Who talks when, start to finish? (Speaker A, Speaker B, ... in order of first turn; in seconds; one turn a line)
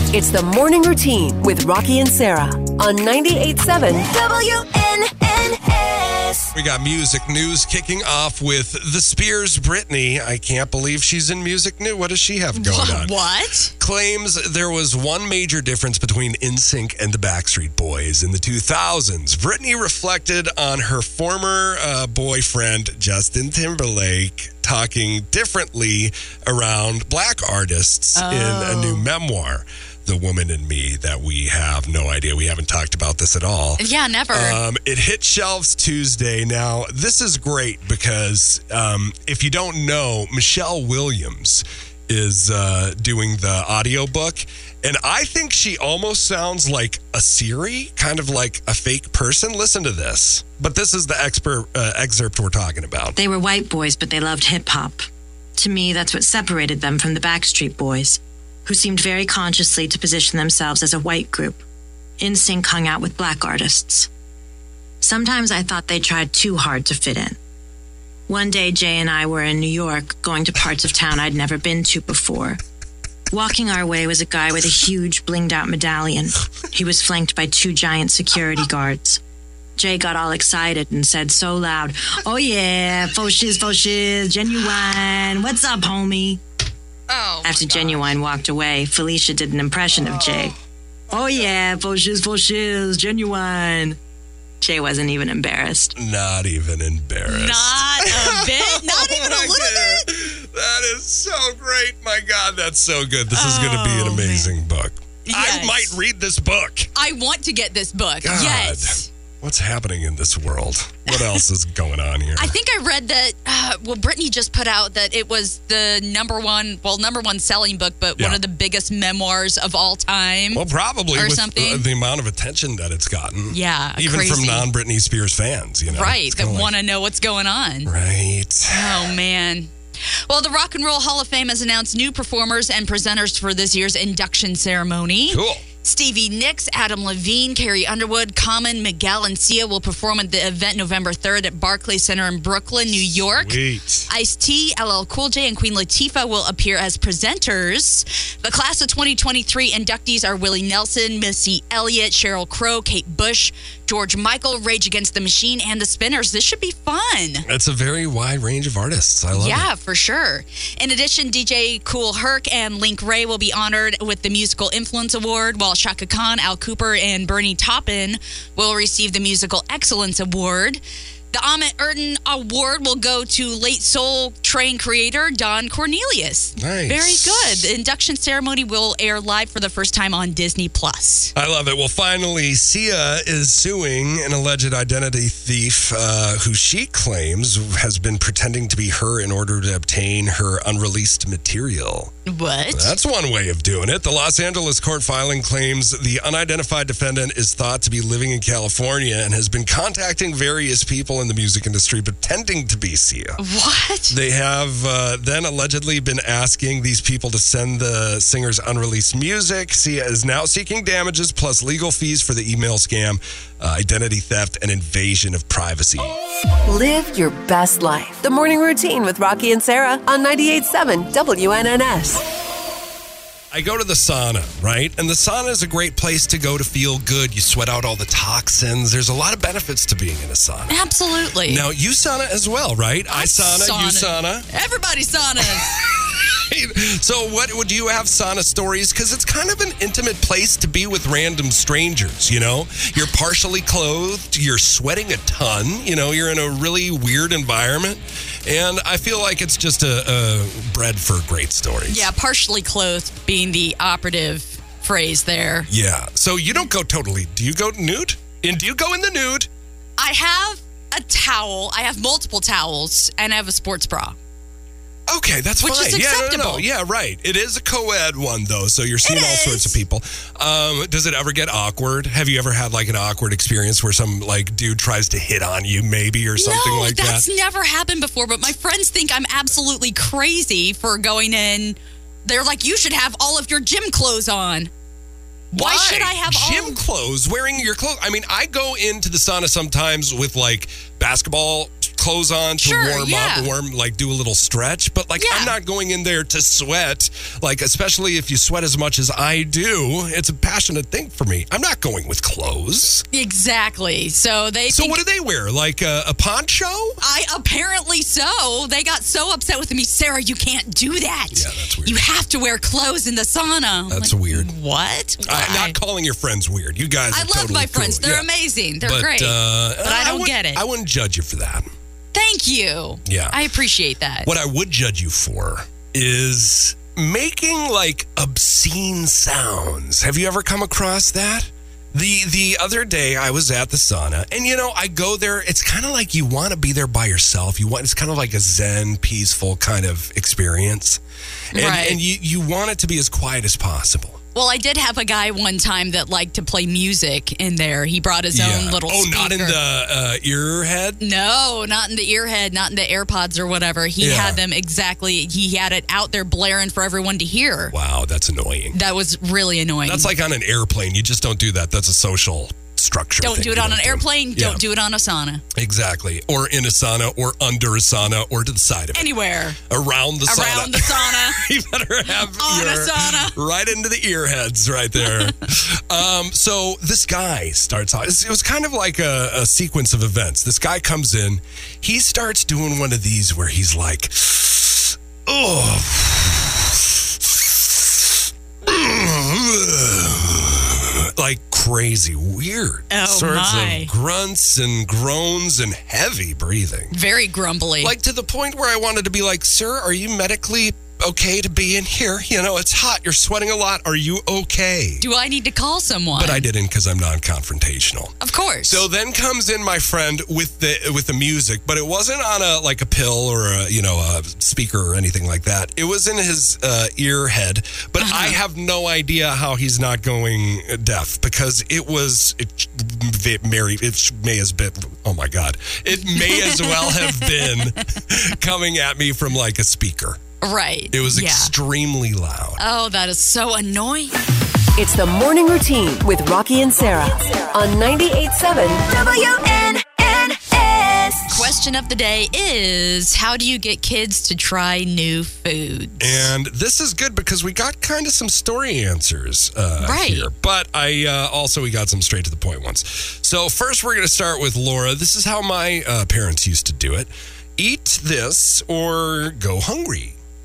Speaker A: 0.1-4.1
Speaker B: 4.1-6.5
Speaker C: 6.5-13.2
Speaker D: 12.6-13.7
Speaker C: 13.8-53.2
Speaker D: 28.1-29.1
Speaker D: 33.8-34.6
Speaker B: 53.2-55.1
Speaker B: 55.6-61.6
Speaker B: 62.2-64.1
Speaker B: 65.0-67.4
Speaker B: 68.3-72.6
Speaker B: 73.3-79.2
Speaker B: 79.8-86.4
Speaker D: 87.1-88.1
Speaker B: 87.4-90.6
Speaker C: 90.1-90.5
Speaker B: 91.1-94.0
Speaker B: 94.6-96.0
Speaker C: 96.0-106.9
Speaker D: 97.3-100.1
Speaker D: 103.3-104.5
Speaker D: 105.2-106.0
Speaker D: 107.0-109.1
Speaker C: 108.2-112.6
Speaker D: 111.1-111.4
Speaker D: 112.4-121.8
Speaker C: 120.5-126.7
Speaker D: 123.5-124.7
Speaker D: 125.9-127.9
Speaker C: 127.9-129.1
Speaker D: 128.7-157.5
Speaker C: 135.3-135.6
Speaker C: 143.0-144.1
Speaker C: 157.4-159.7
Speaker D: 159.3-181.3
Speaker C: 176.6-177.7
Speaker C: 181.3-192.1
Speaker D: 192.3-193.0
Speaker C: 192.7-203.4
Speaker D: 203.4-204.2
Speaker C: 204.1-216.2
Speaker A: 216.7-222.2
Speaker C: 223.5-230.8
Speaker D: 230.7-231.7
Speaker C: 231.4-234.5
Speaker D: 233.1-235.7
Speaker C: 235.4-252.1
Speaker D: 251.9-255.7
Speaker C: 255.7-259.5
Speaker D: 260.0-264.2
Speaker C: 265.1-277.3
Speaker D: 265.6-266.6
Speaker D: 269.0-269.8
Speaker D: 276.4-284.7
Speaker D: 285.5-286.8
Speaker C: 285.5-303.1
Speaker D: 292.6-293.5
Speaker D: 295.2-295.6
Speaker D: 303.1-305.0
Speaker C: 304.7-307.0
Speaker D: 307.0-315.8
Speaker C: 311.3-312.1
Speaker C: 313.9-314.5
Speaker C: 315.2-318.3
Speaker D: 317.1-320.6
Speaker C: 318.8-321.7
Speaker D: 322.1-324.3
Speaker C: 323.1-323.5
Speaker C: 324.2-341.0
Speaker D: 341.5-342.0
Speaker C: 341.5-344.2
Speaker D: 344.4-349.6
Speaker C: 348.3-351.0
Speaker D: 351.0-357.7
Speaker C: 354.0-354.4
Speaker C: 357.7-358.8
Speaker D: 358.7-360.1
Speaker C: 359.9-364.6
Speaker D: 363.2-365.4
Speaker C: 365.5-397.0
Speaker D: 368.9-369.6
Speaker D: 370.3-371.4
Speaker D: 372.3-373.4
Speaker D: 375.0-375.3
Speaker D: 392.9-393.9
Speaker D: 396.9-397.9
Speaker C: 397.8-405.1
Speaker D: 405.0-406.5
Speaker C: 406.1-430.2
Speaker D: 408.2-408.9
Speaker D: 418.0-418.4
Speaker D: 426.0-427.8
Speaker D: 430.4-431.5
Speaker C: 430.9-432.6
Speaker D: 432.6-434.1
Speaker A: 434.8-439.0
Speaker B: 438.9-441.2
Speaker D: 441.3-446.3
Speaker C: 446.0-460.2
Speaker D: 449.8-450.3